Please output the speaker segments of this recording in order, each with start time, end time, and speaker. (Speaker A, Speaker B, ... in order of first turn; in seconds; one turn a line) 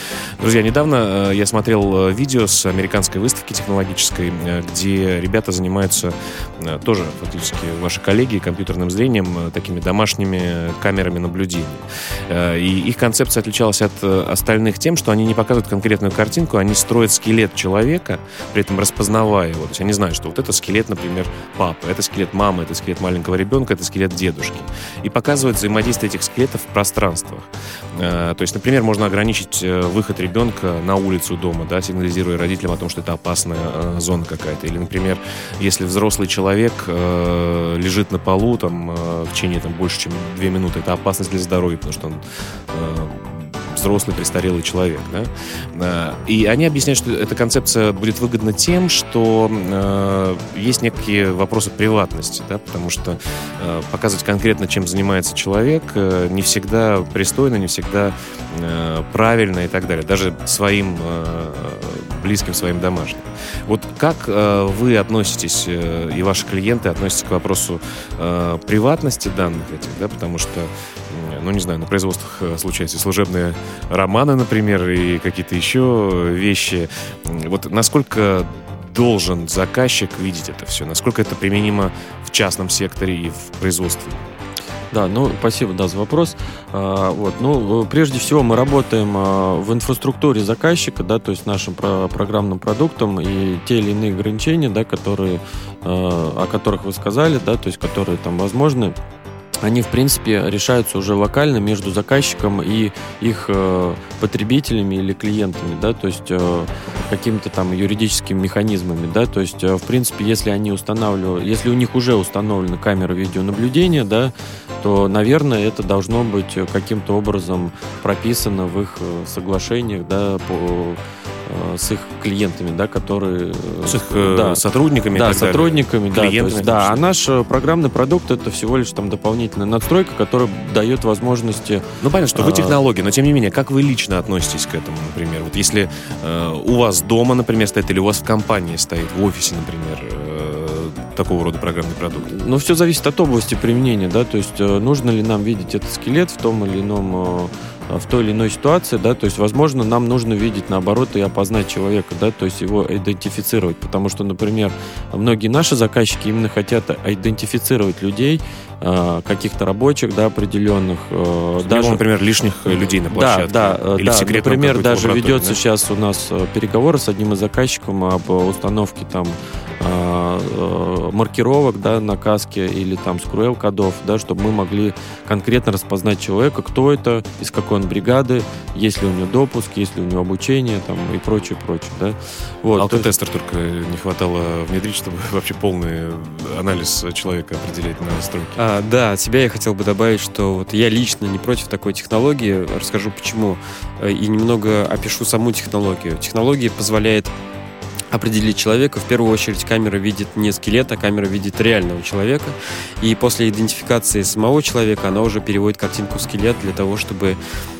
Speaker A: 0.4-84.2
Speaker B: 84.9-99.0
Speaker B: 99.6-124.6
Speaker A: 123.8-127.0
Speaker B: 125.1-132.7
Speaker A: 132.0-142.3
Speaker B: 142.2-162.0
Speaker A: 161.6-165.6
Speaker B: 163.1-183.1
Speaker A: 182.8-188.6
Speaker C: 188.6-197.3
Speaker C: 198.1-207.4